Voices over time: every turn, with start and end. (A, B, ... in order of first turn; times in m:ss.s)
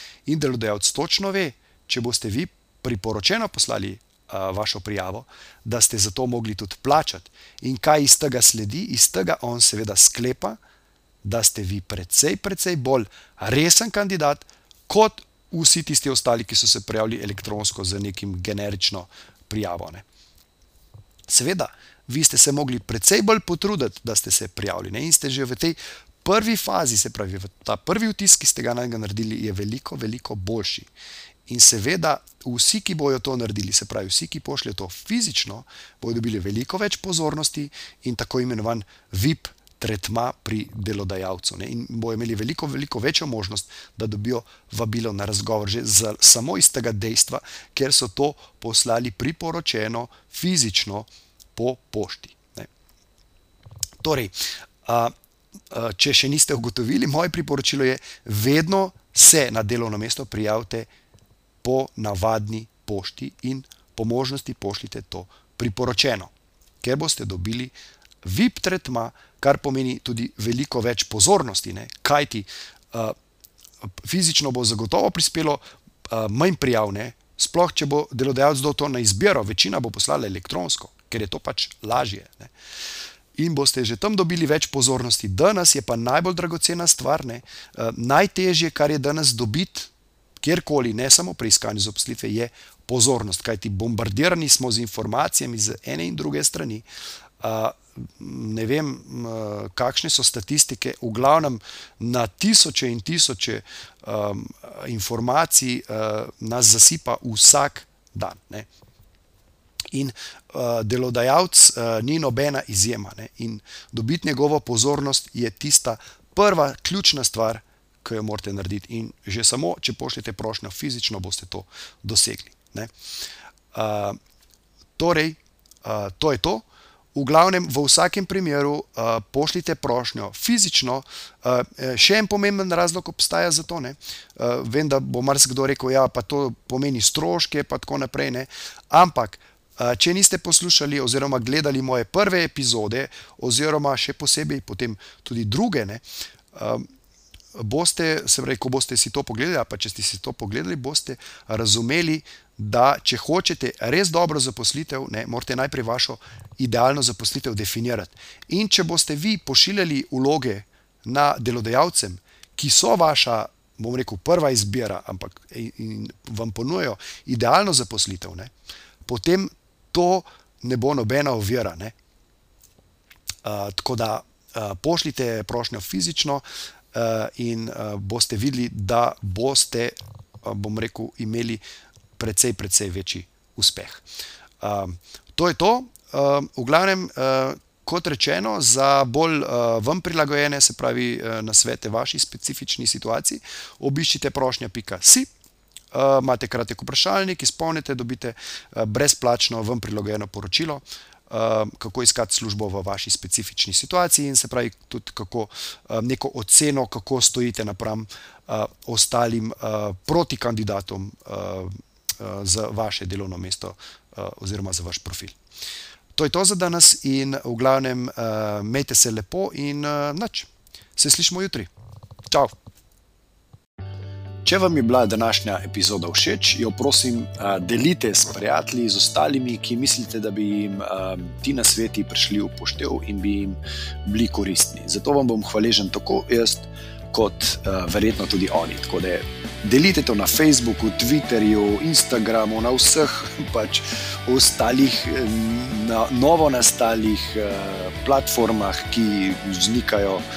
0:00.2-0:10.6 A
0:11.2-0:20.0 A
0:21.3-0:30.9 A
0:31.5-0:52.7 A
0:54.0-0:54.3 A
0:54.8-0:55.1 A
0:55.7-1:00.9 A
1:01.6-1:13.2 A
1:13.8-1:22.5 A
1:23.4-1:36.8 A
1:37.4-1:48.7 A
1:49.9-2:02.9 A
2:03.7-2:04.2 A
2:05.0-2:26.9 A
2:27.5-2:48.5 A
2:49.0-2:51.9 A
2:53.4-3:01.6 A
3:02.2-3:04.0 A
3:04.6-3:15.3 A
3:15.9-3:35.4 A
3:36.1-3:41.7 A
3:44.4-4:10.2 A